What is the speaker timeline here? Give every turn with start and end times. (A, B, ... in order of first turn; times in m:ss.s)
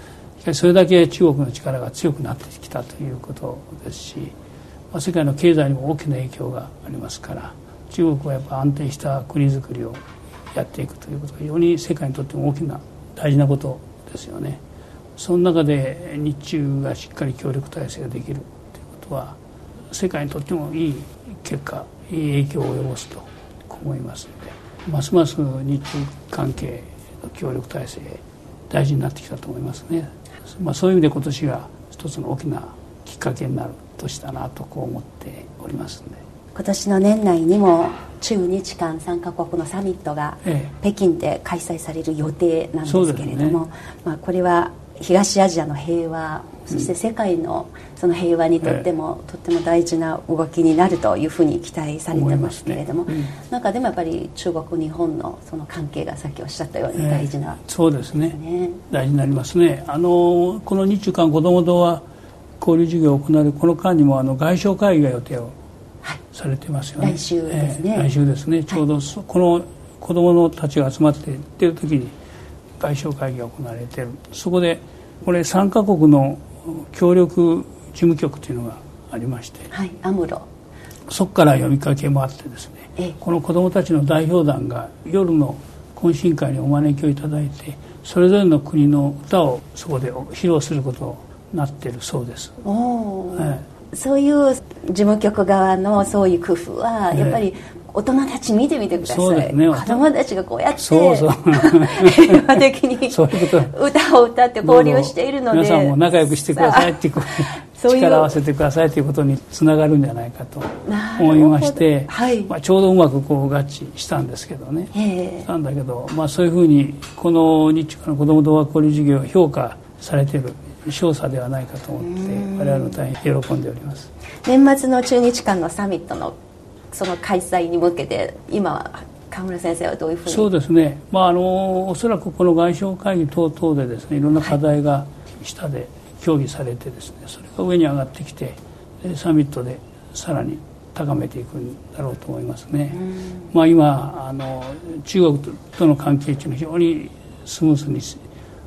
0:00.4-0:04.4 A
0:04.9-0:14.6 A
0:15.2-0:36.2 A
0:36.5-0:57.6 B
0:40.4-0:40.7 A
0:42.8-0:43.6 A
0:52.1-0:53.3 A
0:56.9-0:58.4 A
0:58.3-0:58.8 B
0:58.9-1:02.0 A
1:02.6-1:05.6 A
1:06.3-1:12.2 A
1:07.0-1:08.1 B
1:12.8-1:19.7 A
1:19.7-1:20.4 B
1:21.1-1:32.6 A
1:32.6-1:48.4 B
1:33.4-1:33.6 A
1:37.1-1:37.4 A
1:39.0-1:40.0 A
1:40.8-1:43.7 A
1:44.6-1:54.9 A
1:50.8-1:52.5 B
1:54.9-1:55.5 B
1:55.4-2:04.1 A
2:02.0-2:03.0 B
2:04.4-2:06.4 B
2:06.9-2:10.5 B
2:10.2-2:28.2 A
2:22.9-2:23.5 B